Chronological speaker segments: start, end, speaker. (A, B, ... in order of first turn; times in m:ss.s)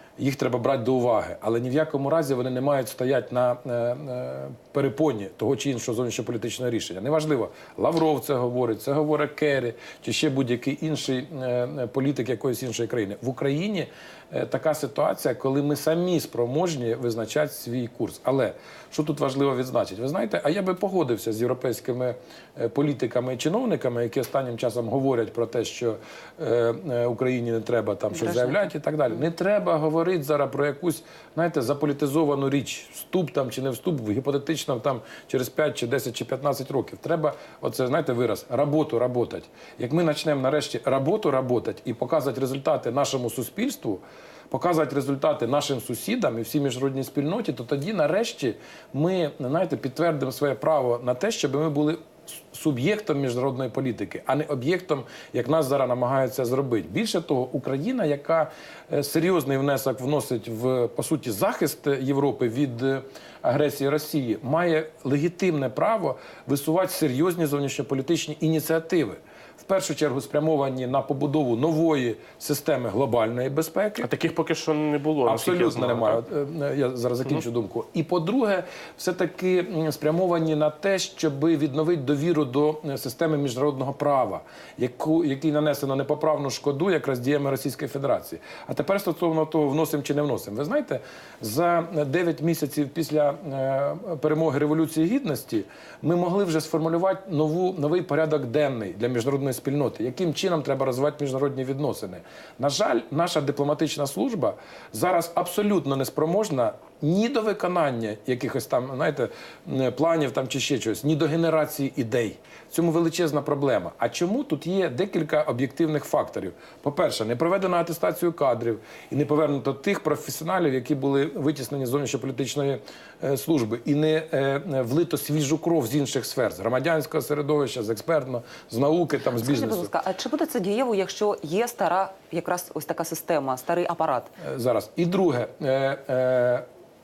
0:00.2-1:14.1 A
0:28.2-0:28.6 B
1:14.0-1:16.2 C
1:15.2-2:09.9 A
2:09.4-2:14.3 B
2:14.4-2:16.6 A